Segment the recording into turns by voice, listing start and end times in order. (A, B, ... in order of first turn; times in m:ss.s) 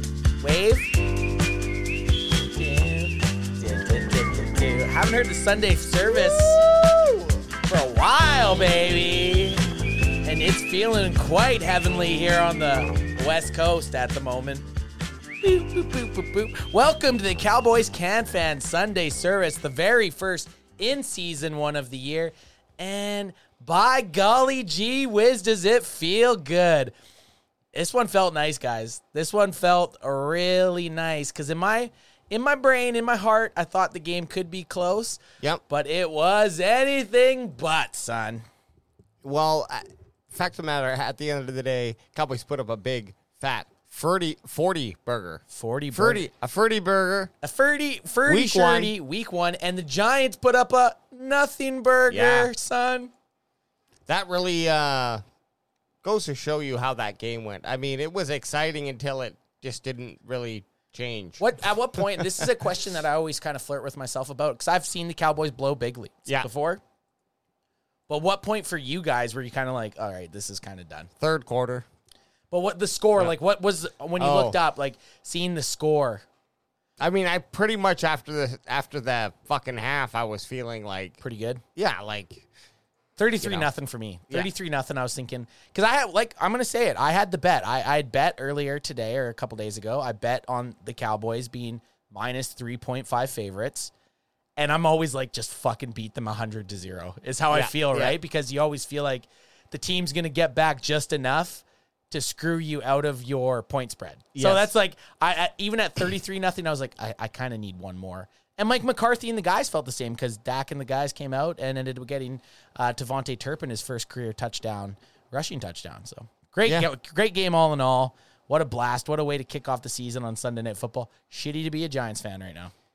0:00.4-0:00.9 A
0:02.5-0:06.6 A
0:07.6-0:09.7 A
0:10.2-0:14.6 A
0:15.4-0:26.9 A
0:27.7-0:38.4 A
0:39.2-0:45.4 B
0:45.5-0:46.2 A
0:45.9-0:47.3 B
0:47.4-0:53.1 A
0:48.3-0:48.9 B
0:52.1-0:52.5 B
0:54.1-0:55.2 B
0:56.0-1:01.4 B
1:01.4-1:06.8 A
1:02.2-1:02.5 B
1:08.1-1:11.1 A
1:11.2-1:11.9 B
1:12.5-1:16.2 A
1:14.2-1:14.6 B
1:17.0-1:21.2 B
1:21.2-1:21.6 A
1:21.8-1:22.4 B
1:23.2-1:33.9 A
1:23.4-1:23.7 B
1:34.6-2:02.7 A
1:37.5-1:38.2 B
1:44.4-1:44.7 B